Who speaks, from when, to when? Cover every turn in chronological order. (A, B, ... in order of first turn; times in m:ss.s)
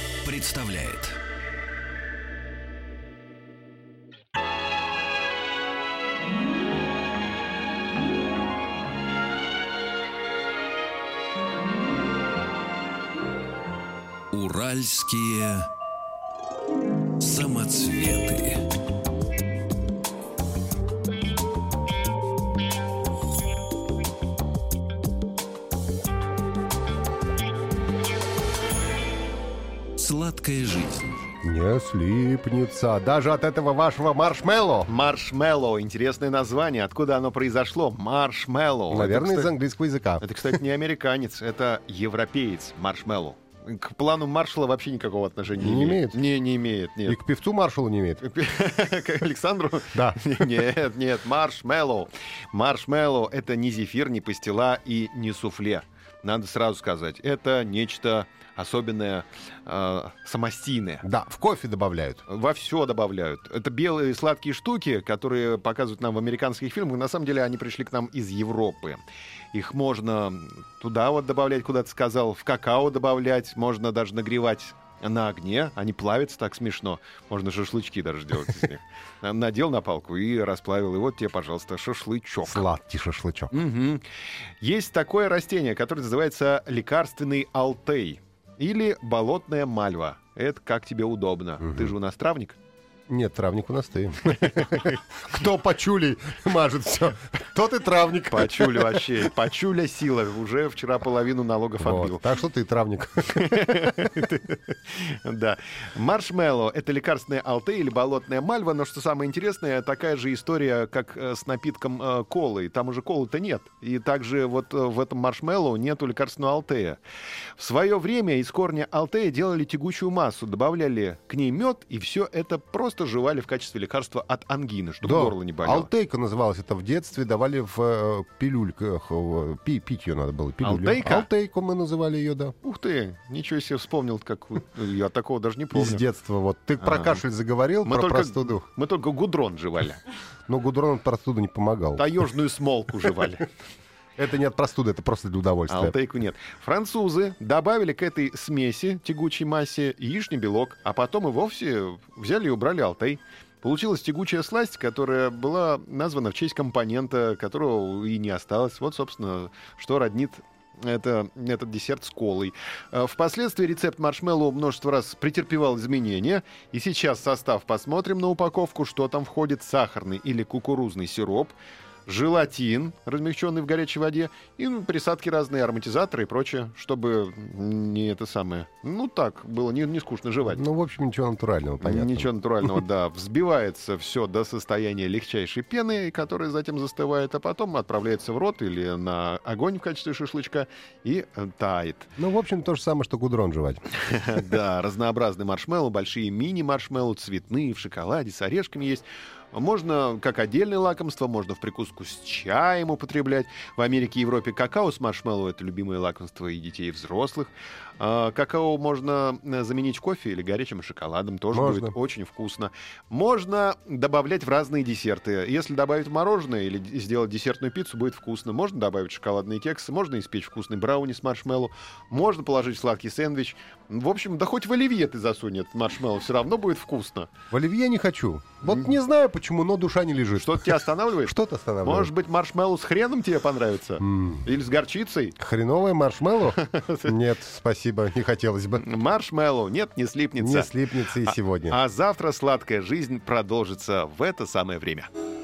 0:00.2-0:01.2 A
0:14.3-0:15.7 A
0:17.2-0:18.6 A
0:30.0-0:31.2 A
0:31.4-0:34.9 B
0:34.8-0:39.5 C
0:38.9-0:40.2 B
0:40.2-0:47.2 C
0:45.6-0:46.2 B
0:47.0-0:48.2 B
0:48.2-1:01.0 C
0:49.9-0:50.4 B
1:01.0-1:02.2 B
1:02.3-1:09.0 C
1:09.5-1:22.7 C
1:22.4-1:23.5 B
1:23.5-1:24.0 C
1:24.6-1:32.6 C
1:31.6-1:31.9 B
1:33.1-1:39.2 B
1:34.4-1:35.0 C
1:38.3-1:42.2 C
1:41.8-1:43.8 B
1:43.3-1:57.0 C
1:57.6-2:05.9 C
2:05.0-2:12.5 B
2:10.6-2:11.3 C
2:12.6-2:16.0 C
2:15.7-2:18.6 B
2:16.8-2:17.2 C
2:17.8-2:20.0 C
2:20.5-2:22.2 B
2:22.0-2:23.5 C
2:24.2-2:26.0 B
2:25.7-3:00.6 C
3:00.5-3:02.3 B
3:01.8-3:12.1 C
3:12.2-3:13.8 B
3:13.9-3:47.3 C
3:31.5-3:31.9 B
3:47.5-3:52.1 B
3:48.6-3:48.9 C
3:50.4-3:55.4 C
3:54.0-3:54.4 B
3:55.4-3:58.8 B
3:56.5-3:57.1 C
3:58.8-4:05.1 C
4:00.4-4:01.8 B